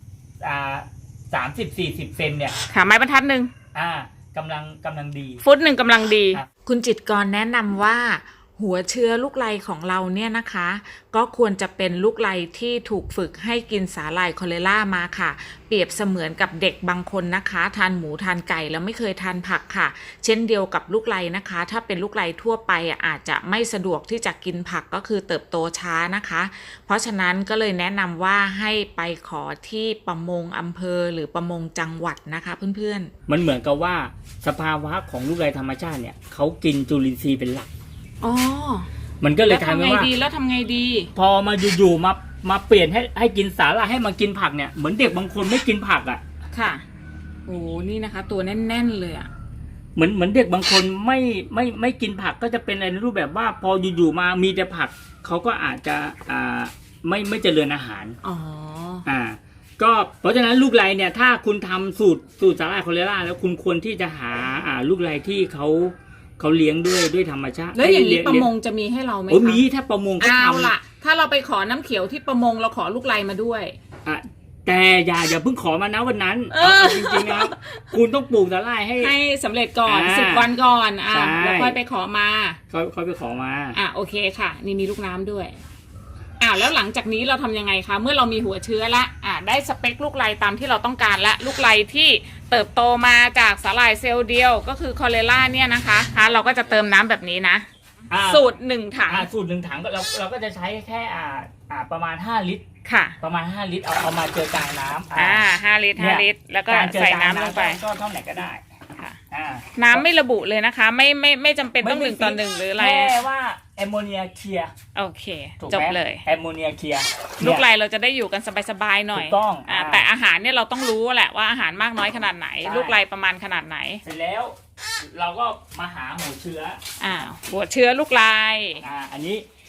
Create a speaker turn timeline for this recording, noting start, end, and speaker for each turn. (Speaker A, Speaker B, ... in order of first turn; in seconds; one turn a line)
Speaker A: 0.4-2.5
Speaker B: 2.7-3.5
Speaker A: 3.7-5.4
Speaker B: 5.4-33.1
Speaker A: 33.3-37.7
Speaker B: 38.2-38.9
Speaker A: 39.2-40.1
Speaker B: 39.5-41.1
Speaker A: 41.1-46.2
Speaker B: 46.5-46.8
Speaker B: 47.5-49.3
Speaker A: 50.0-58.2
Speaker B: 58.2-59.0
Speaker A: 59.0-68.5
Speaker B: 67.7-69.6
Speaker A: 69.3-70.7
Speaker B: 70.2-73.8
Speaker A: 74.0-79.1
Speaker B: 76.5-77.8
Speaker B: 79.0-82.6
Speaker A: 79.8-80.5
Speaker A: 81.1-81.8
Speaker A: 82.7-83.8
Speaker B: 83.7-85.6
Speaker B: 86.4-97.7
Speaker A: 98.1-98.5
Speaker B: 98.2-99.3
Speaker A: 99.1-102.6
Speaker B: 102.8-103.2
Speaker A: 103.2-108.6
Speaker B: 105.1-107.8
Speaker A: 109.3-110.0
Speaker B: 109.8-113.1
Speaker A: 111.8-114.7
Speaker B: 114.9-116.2
Speaker A: 115.6-117.7
Speaker B: 117.4-124.0
Speaker A: 119.1-120.1
Speaker A: 122.6-123.0
Speaker A: 124.0-126.8
Speaker B: 127.0-128.8
Speaker A: 128.8-129.4